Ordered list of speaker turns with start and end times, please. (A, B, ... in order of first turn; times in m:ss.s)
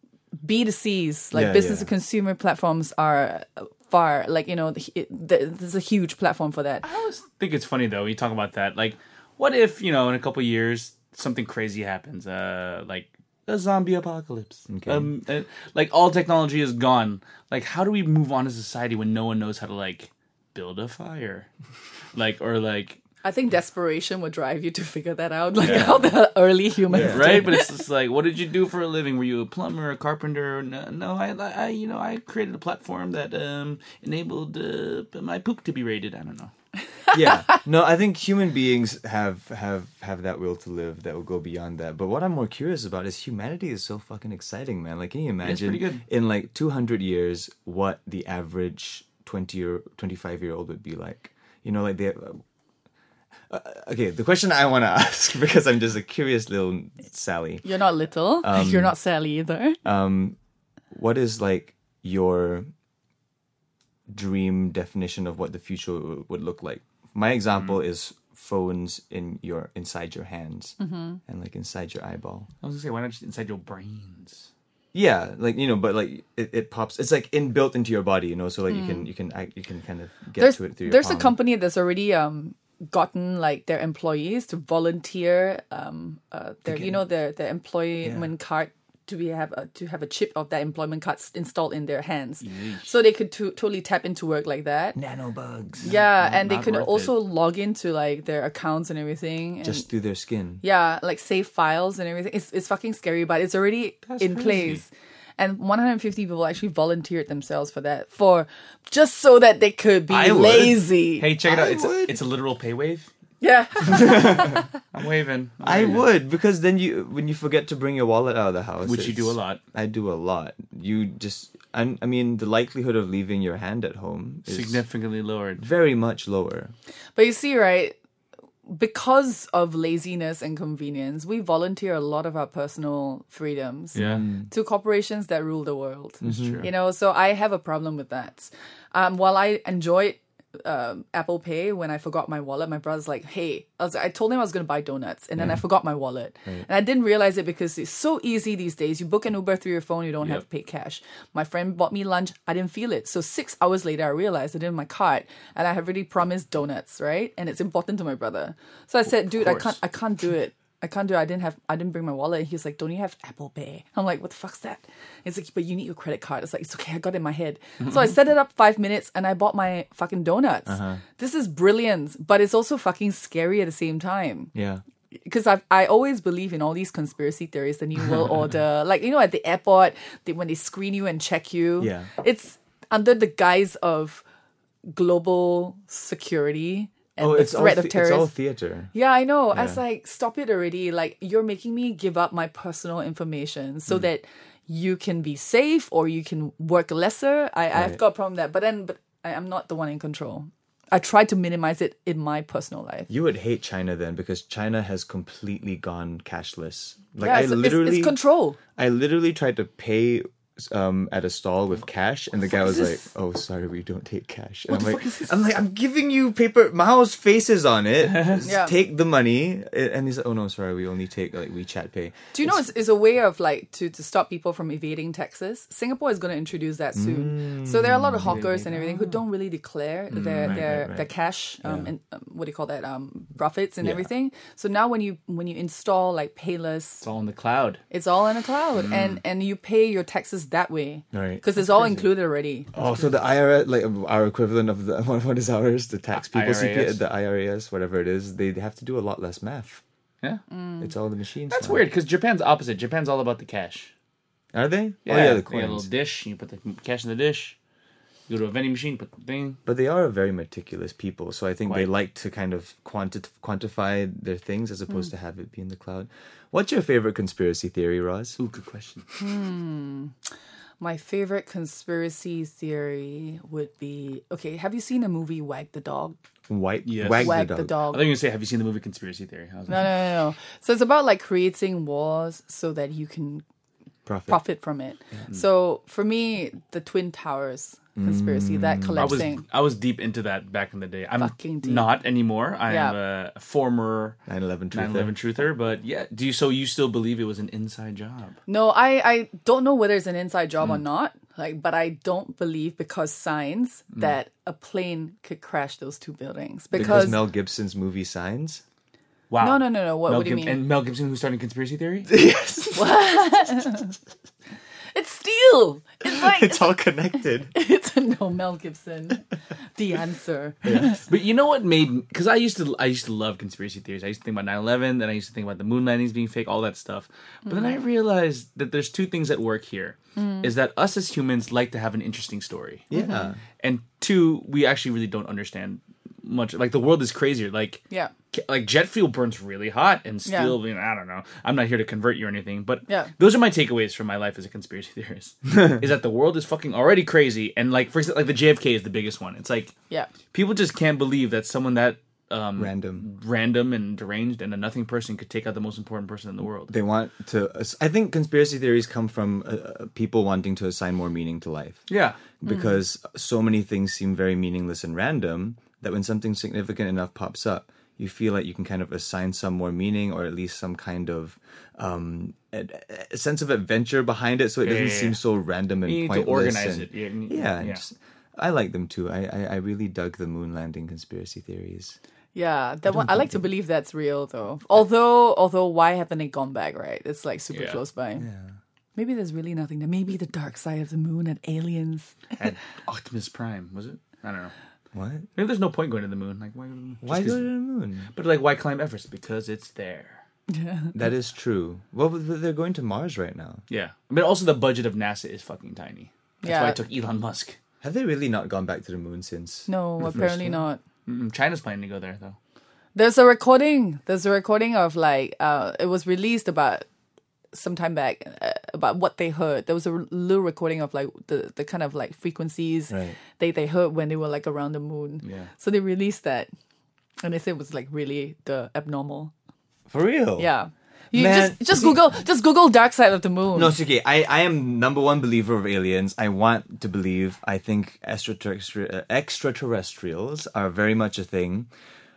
0:00.4-0:06.8 A
0:01.3-0:01.9 B
0:06.8-0:21.5 C
0:14.7-0:15.1 B
0:22.2-0:23.0 C
0:23.2-0:27.7 A
0:25.6-0:26.1 B
0:26.9-0:27.6 B
0:26.9-0:36.5 C
0:37.1-0:37.6 A
0:37.1-0:52.4 B
0:45.4-0:46.0 C
0:53.5-0:57.6 B
0:57.6-0:59.8 A
0:58.4-0:58.9 B
0:59.8-1:00.4 B
1:00.9-1:02.7 B
1:04.1-1:12.5 B
1:10.8-1:11.2 A
1:12.6-1:14.5 C
1:14.9-1:21.4 B
1:18.7-1:19.1 A
1:20.4-1:35.0 A
1:26.7-1:27.0 B
1:28.0-1:28.3 B
1:32.4-1:32.9 C
1:35.0-1:35.9 B
1:35.8-1:39.8 A
1:35.9-1:37.2 C
1:39.6-1:40.6 B
1:40.6-1:51.3 A
1:44.1-1:44.8 C
1:50.1-1:50.8 B
1:50.3-1:53.1 C
1:51.4-1:52.2 B
1:53.4-1:54.7 A
1:53.9-1:54.6 B
1:54.9-1:56.1 C
1:55.6-2:04.8 B
1:58.8-1:59.6 C
2:04.5-2:05.6 C
2:05.6-2:06.7 B
2:07.2-2:08.0 A
2:08.7-2:54.5 A
2:14.0-2:14.3 C
2:14.0-2:14.5 B
2:16.2-2:16.6 B
2:16.2-2:16.7 C
2:39.3-2:39.8 C
2:50.7-2:51.0 B
2:54.5-2:54.8 B
2:55.1-3:04.2 A
3:01.8-3:02.1 B
3:04.9-3:08.3 A
3:07.2-3:08.9 B
3:08.9-3:23.1 A
3:09.5-3:09.8 B
3:17.7-3:18.0 B
3:23.1-3:28.2 B
3:27.2-3:28.6 A
3:28.8-3:42.7 B
3:34.7-3:35.3 C
3:38.4-3:38.8 A
3:42.3-3:57.0 A
3:47.0-3:48.9 B
3:48.3-3:48.6 C
3:50.2-3:51.1 B
3:50.3-3:50.7 C
3:51.6-3:51.9 B
3:57.0-3:57.8 C
3:57.9-4:02.7 A
3:58.7-3:59.2 C
4:01.1-4:01.4 B
4:02.7-4:09.8 B
4:06.1-4:07.0 C
4:10.5-4:10.9 A
4:10.8-4:11.8 B
4:11.5-4:13.9 C
4:14.5-4:15.9 B
4:15.1-4:17.6 C
4:18.3-4:19.6 C
4:19.6-4:28.4 B
4:28.4-4:29.1 C
4:29.2-4:30.2 A
4:30.8-4:36.2 A
4:36.5-4:37.7 B
4:36.9-4:40.0 C
4:37.2-4:38.1 A
4:39.7-4:43.4 A
4:44.1-4:44.4 B
4:44.3-4:49.4 A
4:48.0-4:49.3 B
4:49.0-4:54.2 C
4:51.2-4:51.9 A
4:52.7-4:53.0 A
4:54.3-4:55.1 B
4:54.7-4:58.4 C
4:58.5-5:07.2 A
5:06.7-5:08.6 B
5:09.3-5:12.2 C
5:09.4-5:10.6 A
5:12.1-5:13.0 B
5:12.7-5:13.9 A
5:14.9-5:16.8 A
5:16.0-5:17.5 B
5:17.5-5:21.0 A
5:20.6-5:21.0 B
5:20.8-5:32.9 C
5:27.5-5:27.8 A
5:30.2-5:30.5 A
5:32.9-5:33.4 B
5:32.9-5:33.3 A
5:33.6-5:37.8 C
5:38.3-5:49.7 C
5:40.3-5:40.6 A
5:50.3-5:56.7 C
5:52.6-5:53.0 B
5:56.7-6:01.9 B
6:01.9-6:02.2 C
6:02.4-6:22.0 B
6:14.6-6:15.2 C
6:15.9-6:17.8 C
6:22.4-6:28.3 A
6:27.5-6:27.8 C
6:28.2-6:28.5 B
6:29.0-6:32.2 A
6:32.4-6:34.5 C
6:34.9-6:35.3 B
6:35.4-6:37.4 C
6:37.0-6:38.1 B
6:38.1-6:40.2 C
6:40.5-6:40.9 A
6:40.9-6:43.6 B
6:43.7-6:47.6 C
6:46.4-6:46.8 A
6:47.8-6:50.6 B
6:49.7-6:50.8 A
6:51.1-6:52.4 C
6:53.0-6:56.9 A
6:57.5-7:06.5 A
7:02.9-7:03.2 B
7:05.2-7:05.5 C
7:07.2-7:09.3 A
7:09.9-7:10.5 B
7:10.4-7:13.8 A
7:11.1-7:12.0 B
7:13.6-7:21.7 B